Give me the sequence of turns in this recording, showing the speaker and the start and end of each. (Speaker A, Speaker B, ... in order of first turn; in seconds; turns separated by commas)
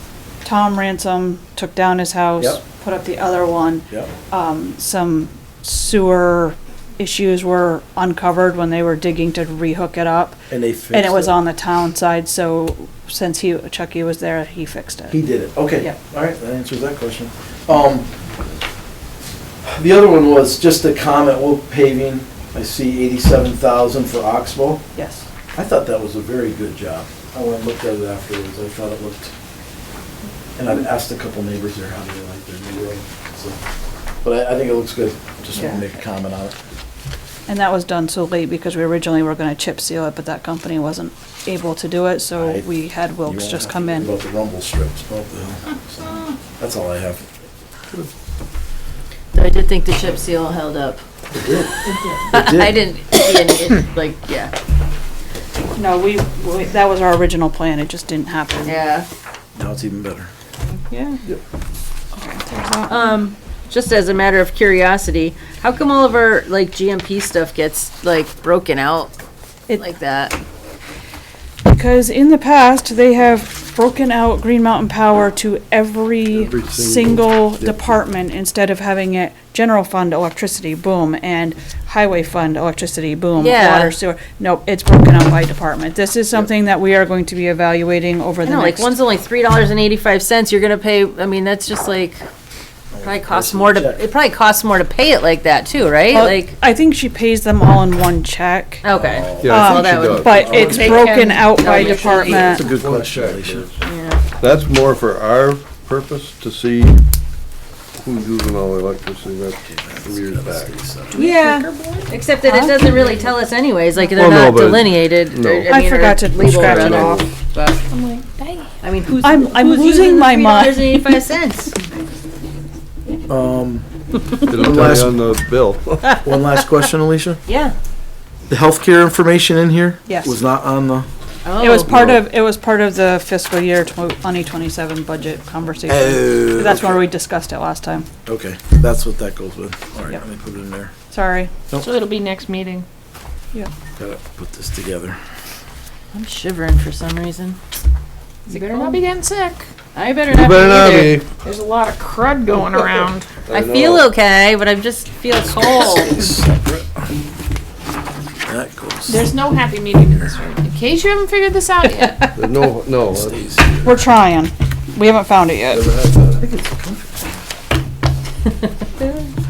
Speaker A: 0.4-15.2, Speaker B: 10.5-11.3, Speaker B: 15.1-18.1, Speaker B: 19.6-24.8, Speaker A: 24.9-25.3, Speaker B: 25.5-29.3, Speaker B: 30.6-33.6, Speaker B: 34.2-36.5, Speaker C: 35.5-35.8, Speaker A: 37.5-44.1, Speaker B: 42.4-47.2, Speaker C: 49.3-51.0, Speaker B: 51.4-51.7, Speaker C: 51.9-54.5, Speaker B: 52.3-52.8, Speaker A: 55.8-58.8, Speaker C: 58.6-59.1, Speaker B: 59.5-60.3, Speaker A: 60.9-61.2, Speaker A: 62.1-63.1, Speaker C: 62.9-69.1, Speaker C: 69.8-70.3, Speaker A: 71.6-88.9, Speaker D: 76.3-77.8, Speaker C: 83.3-83.9, Speaker C: 88.4-92.2, Speaker B: 92.9-94.0, Speaker C: 93.0-96.5, Speaker A: 96.1-98.8, Speaker C: 98.8-102.6, Speaker B: 98.9-99.5, Speaker D: 99.4-100.4, Speaker A: 99.5-102.6, Speaker B: 100.3-101.1, Speaker B: 102.2-103.7, Speaker D: 102.3-103.8, Speaker C: 103.8-104.2, Speaker D: 104.4-107.0, Speaker D: 108.0-110.7, Speaker B: 109.6-111.2, Speaker E: 111.1-112.1, Speaker C: 111.1-117.8, Speaker A: 112.4-112.8, Speaker D: 114.1-115.7, Speaker A: 115.7-117.3, Speaker D: 116.4-117.3, Speaker E: 117.9-118.7, Speaker C: 118.8-121.7, Speaker A: 119.2-121.2, Speaker B: 123.3-123.8, Speaker D: 124.5-126.2, Speaker B: 124.5-125.1, Speaker B: 126.2-127.4, Speaker C: 127.5-127.7, Speaker B: 128.5-131.1, Speaker A: 130.1-130.3, Speaker C: 131.4-131.9, Speaker A: 131.6-138.1, Speaker D: 131.9-132.1, Speaker B: 135.9-137.1, Speaker B: 138.2-140.9, Speaker A: 141.1-141.5, Speaker E: 141.7-142.8, Speaker B: 144.0-145.2, Speaker C: 146.1-147.6, Speaker C: 148.5-149.0, Speaker E: 148.5-149.6, Speaker C: 149.9-151.2, Speaker D: 150.3-151.3, Speaker E: 150.8-153.3, Speaker D: 153.5-154.1, Speaker C: 153.5-156.1, Speaker B: 155.7-157.1, Speaker B: 158.4-159.2, Speaker E: 159.1-162.3, Speaker D: 162.3-163.5, Speaker B: 163.1-164.0, Speaker A: 163.8-165.9, Speaker D: 165.7-166.4, Speaker B: 166.4-167.4, Speaker C: 169.0-169.3